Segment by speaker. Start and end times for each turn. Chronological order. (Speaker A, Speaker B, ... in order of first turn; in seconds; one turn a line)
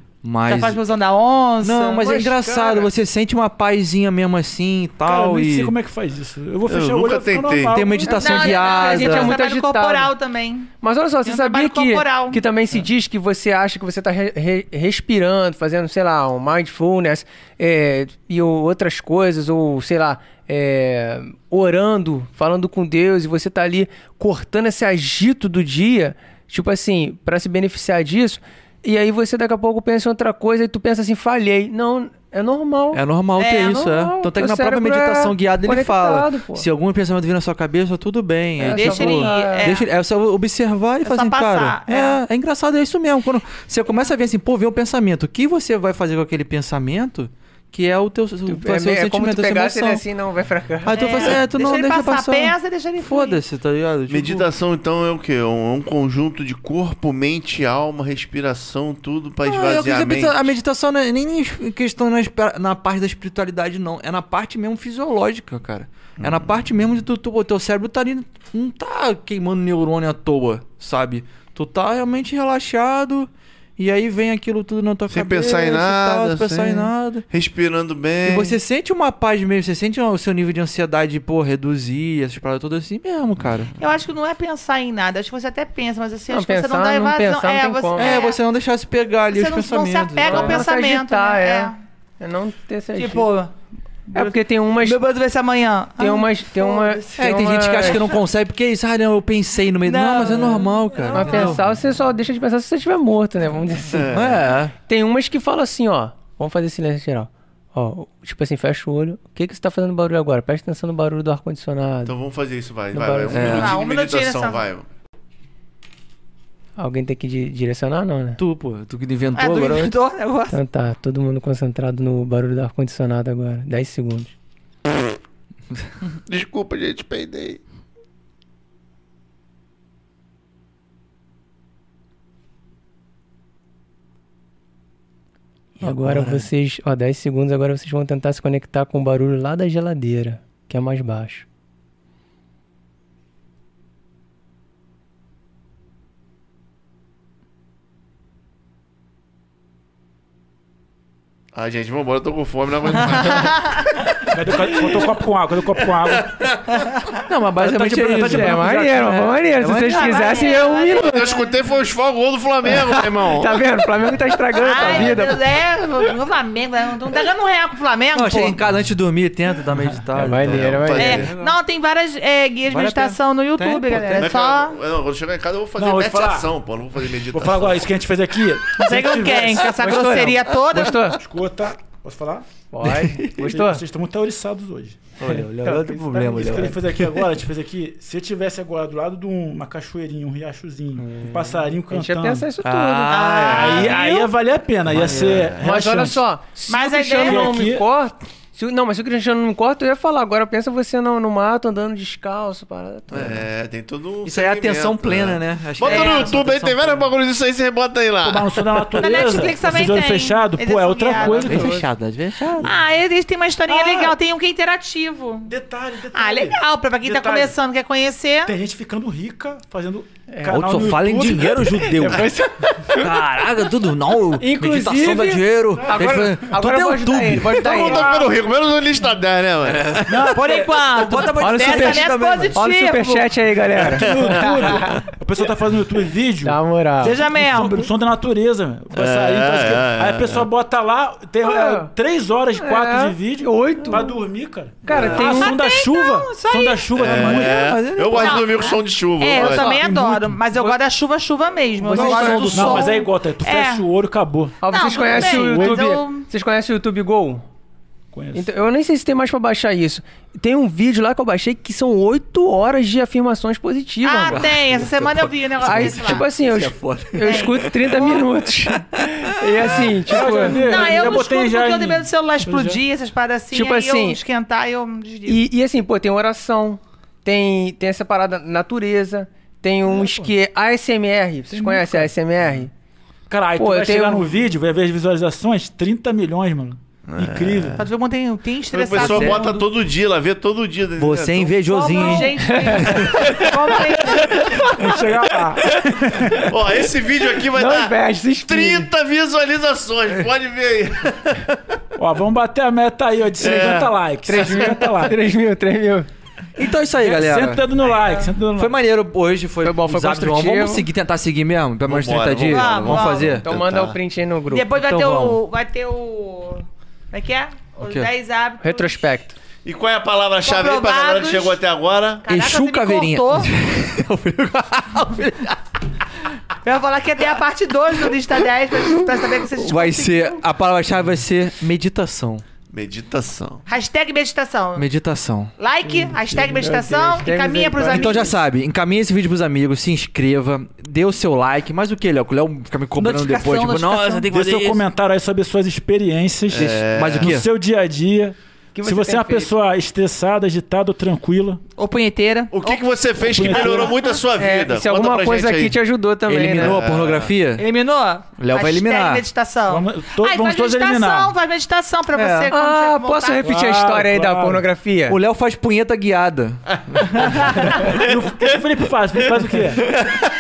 Speaker A: 0.2-0.8
Speaker B: 0.5-2.9
Speaker A: 1.6-5.7
Speaker C: 2.5-2.8
Speaker D: 5.0-8.4
Speaker E: 6.7-7.8
Speaker A: 7.7-9.4
Speaker B: 8.1-10.7
Speaker C: 8.3-10.1
Speaker C: 10.8-33.0
Speaker B: 11.2-12.4
Speaker A: 32.9-50.0
Speaker B: 33.4-33.8
Speaker C: 33.5-36.6
Speaker C: 38.6-39.7
Speaker B: 38.7-39.9
Speaker B: 41.0-42.2
Speaker C: 48.5-51.4
Speaker A: 50.8-54.5
Speaker B: 50.9-53.4
Speaker E: 54.1-60.5
Speaker A: 59.4-77.2
Speaker E: 66.2-66.5
Speaker E: 75.1-78.6
Speaker A: 78.2-83.7
Speaker B: 83.8-88.4
Speaker C: 86.3-88.2
Speaker A: 88.0-90.6
Speaker B: 89.3-91.8
Speaker C: 90.2-93.3
Speaker B: 93.0-93.5
Speaker C: 94.1-95.0
Speaker B: 94.1-98.2
Speaker C: 96.0-98.0
Speaker A: 97.2-101.6
Speaker B: 99.8-101.6
Speaker C: 101.1-104.1
Speaker E: 103.9-104.5
Speaker A: 104.1-104.7
Speaker C: 104.8-112.1
Speaker E: 112.0-114.9
Speaker C: 112.9-113.6
Speaker A: 113.3-113.8
Speaker B: 113.4-114.6
Speaker C: 116.8-118.4
Speaker A: 118.4-119.9
Speaker B: 119.3-120.6
Speaker C: 120.5-124.3
Speaker E: 126.2-127.6
Speaker A: 135.8-136.5
Speaker C: 135.8-141.4
Speaker E: 151.5-153.6
Speaker D: 154.3-156.4
Speaker E: 156.1-156.5
Speaker A: 157.3-160.7
Speaker D: 157.6-159.1
Speaker C: 158.2-161.4
Speaker B: 159.8-161.5
Speaker E: 160.8-163.6
Speaker C: 162.7-165.4
Speaker B: 164.5-168.6
Speaker A: 168.1-171.5
Speaker D: 169.8-170.1
Speaker C: 170.2-171.3
Speaker E: 170.3-171.3
Speaker B: 170.9-174.8
Speaker A: 172.7-174.4
Speaker E: 174.2-177.8
Speaker D: 175.8-176.5
Speaker D: 177.2-180.0
Speaker B: 178.8-181.0
Speaker C: 179.8-181.2
Speaker D: 181.2-185.0
Speaker C: 182.7-183.8
Speaker A: 183.0-183.2
Speaker A: 185.2-187.2
Speaker C: 185.3-186.7
Speaker D: 186.3-192.5
Speaker A: 191.0-191.6
Speaker C: 191.9-194.2
Speaker A: 192.6-194.0
Speaker B: 193.1-194.2
Speaker D: 193.4-196.2
Speaker A: 194.9-195.6
Speaker E: 195.1-195.6
Speaker C: 195.6-203.4
Speaker B: 196.7-197.7
Speaker D: 197.2-197.8
Speaker E: 203.1-208.9
Speaker A: 203.1-203.4
Speaker A: 204.2-207.1
Speaker B: 205.8-206.3
Speaker D: 208.2-211.8
Speaker B: 209.0-211.6
Speaker C: 211.1-211.8
Speaker A: 211.2-212.7
Speaker B: 212.6-215.5
Speaker D: 213.7-214.2
Speaker D: 215.5-217.6
Speaker B: 216.1-218.5
Speaker D: 218.4-222.2
Speaker C: 220.3-220.7
Speaker A: 220.5-222.3
Speaker C: 221.9-223.3
Speaker A: 222.9-227.8
Speaker C: 224.4-228.3
Speaker D: 225.8-226.3
Speaker E: 227.6-230.1
Speaker D: 227.9-228.1
Speaker A: 229.7-232.6
Speaker D: 230.1-230.9
Speaker B: 230.3-233.3
Speaker C: 231.4-235.1
Speaker D: 233.7-247.8
Speaker C: 236.4-237.2
Speaker B: 237.0-237.9
Speaker E: 238.9-240.5
Speaker C: 241.4-241.9
Speaker C: 242.6-244.2
Speaker C: 244.8-245.6
Speaker E: 244.9-245.2
Speaker B: 245.1-246.8
Speaker E: 246.9-249.8
Speaker A: 247.0-248.8
Speaker B: 248.1-253.8
Speaker D: 249.3-250.8
Speaker C: 251.8-253.0
Speaker D: 251.9-255.9
Speaker A: 252.0-252.9
Speaker C: 254.6-257.4
Speaker B: 254.7-256.3
Speaker D: 258.1-258.4
Speaker C: 258.3-264.5
Speaker B: 264.0-266.3
Speaker A: 264.3-270.4
Speaker C: 265.6-270.7
Speaker B: 267.2-268.3
Speaker D: 270.0-272.8
Speaker B: 270.5-275.4
Speaker C: 273.5-274.2
Speaker C: 275.2-282.7
Speaker D: 279.8-280.3
Speaker D: 281.5-282.1
Speaker D: 283.3-287.9
Speaker C: 283.6-284.3
Speaker E: 287.1-287.8
Speaker B: 287.8-289.5
Speaker E: 288.7-291.6
Speaker A: 288.9-289.5
Speaker D: 289.0-289.6
Speaker A: 291.0-293.4
Speaker B: 291.6-294.6
Speaker D: 292.0-292.3
Speaker C: 292.4-293.3
Speaker C: 294.3-294.9
Speaker D: 294.6-296.5
Speaker E: 296.4-301.7
Speaker C: 297.4-298.9
Speaker D: 301.9-305.2
Speaker E: 303.4-303.9
Speaker C: 304.2-306.1
Speaker A: 306.6-307.6
Speaker D: 307.0-308.7
Speaker B: 307.8-308.3
Speaker A: 308.6-313.5
Speaker C: 309.6-310.9
Speaker E: 311.9-314.0
Speaker B: 312.5-313.4
Speaker C: 313.4-314.7
Speaker B: 314.5-319.1
Speaker A: 314.8-315.4
Speaker A: 317.8-318.1
Speaker C: 318.6-319.4
Speaker E: 319.6-322.2
Speaker B: 320.4-321.6
Speaker B: 322.2-323.5
Speaker A: 322.3-325.6
Speaker B: 326.6-330.4
Speaker A: 329.5-332.4
Speaker E: 332.7-333.6
Speaker B: 333.7-334.8
Speaker A: 334.8-335.5
Speaker B: 335.6-338.4
Speaker D: 336.0-337.2
Speaker C: 337.1-338.4
Speaker A: 337.8-344.8
Speaker B: 343.0-344.3
Speaker D: 344.3-351.6
Speaker E: 346.5-347.4
Speaker A: 346.6-347.5
Speaker C: 348.7-349.5
Speaker B: 351.8-352.8
Speaker E: 352.5-355.8
Speaker D: 353.2-354.0
Speaker B: 353.5-354.1
Speaker C: 354.3-356.8
Speaker A: 356.2-357.6
Speaker E: 356.6-357.3
Speaker B: 357.6-363.5
Speaker A: 358.4-359.2
Speaker D: 359.7-361.3
Speaker A: 362.1-362.5
Speaker C: 362.5-365.1
Speaker D: 363.4-364.7
Speaker A: 365.1-368.0
Speaker D: 367.2-370.0